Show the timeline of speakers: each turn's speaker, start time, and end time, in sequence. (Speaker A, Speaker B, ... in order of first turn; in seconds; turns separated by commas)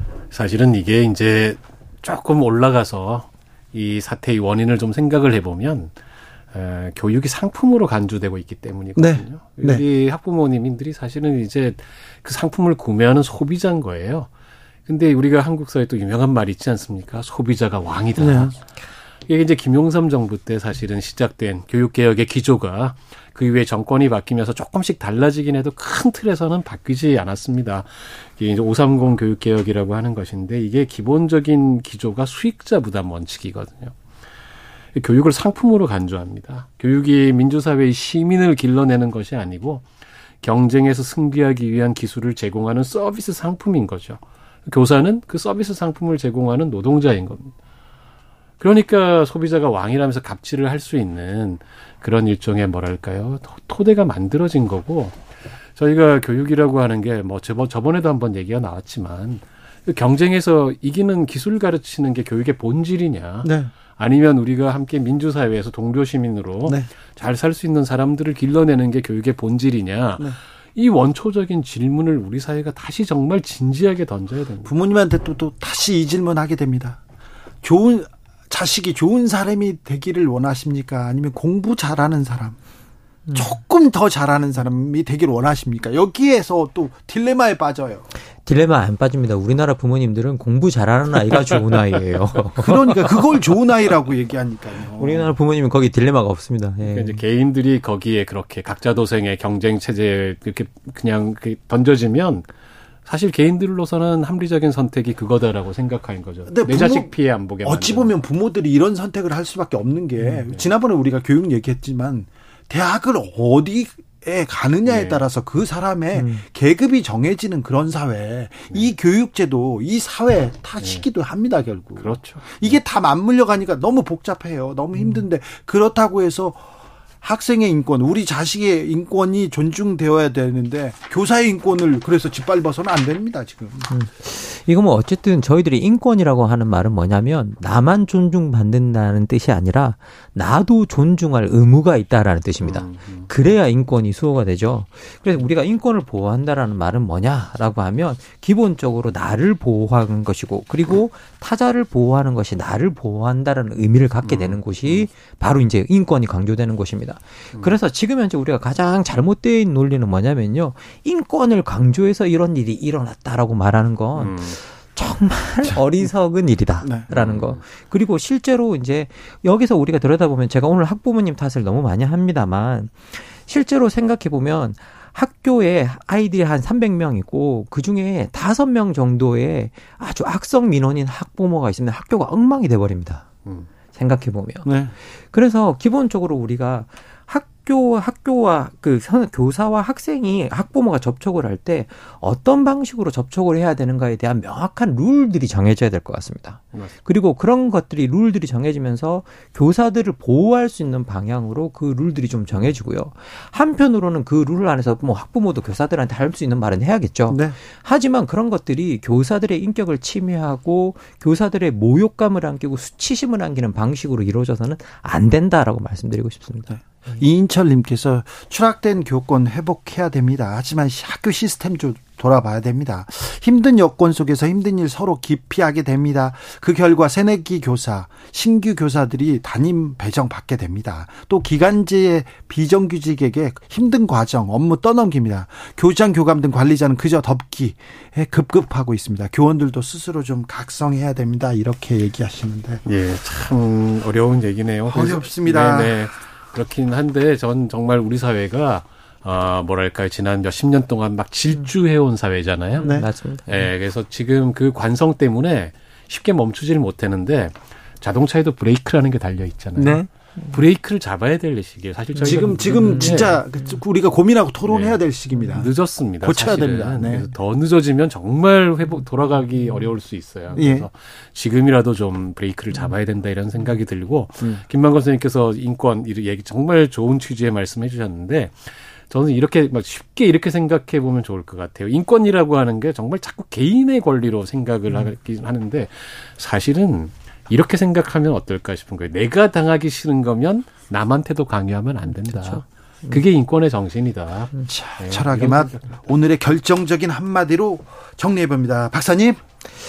Speaker A: 0.3-5.9, Speaker A: 6.5-14.3, Speaker B: 9.0-9.8, Speaker A: 14.9-18.6, Speaker B: 18.2-18.6, Speaker A: 19.3-34.0, Speaker A: 35.0-39.9, Speaker A: 40.4-47.5, Speaker A: 48.6-55.2, Speaker A: 55.8-74.7, Speaker B: 63.4-63.7, Speaker B: 74.7-77.0, Speaker B: 77.6-82.6, Speaker C: 83.3-83.5, Speaker B: 83.3-88.1, Speaker C: 88.5-93.0, Speaker B: 92.6-95.3, Speaker C: 95.0-97.2, Speaker A: 96.8-102.5, Speaker A: 103.0-108.2, Speaker B: 106.5-126.6, Speaker A: 114.9-115.2, Speaker C: 116.2-116.4, Speaker A: 122.0-122.8, Speaker B: 127.2-133.9, Speaker C: 133.9-183.3, Speaker A: 142.6-143.3, Speaker A: 154.2-155.1, Speaker A: 164.2-164.6, Speaker B: 166.8-167.1, Speaker A: 167.1-167.6, Speaker C: 183.9-184.7, Speaker B: 184.7-184.9, Speaker C: 185.3-216.7, Speaker B: 207.3-207.6, Speaker B: 216.7-242.8, Speaker A: 242.9-263.4, Speaker B: 244.9-246.0, Speaker C: 252.8-253.7, Speaker B: 252.8-253.1, Speaker B: 259.8-260.1, Speaker C: 262.2-263.7, Speaker B: 262.2-267.3, Speaker A: 264.6-296.0, Speaker B: 270.5-270.9, Speaker C: 292.1-293.2, Speaker B: 294.6-299.4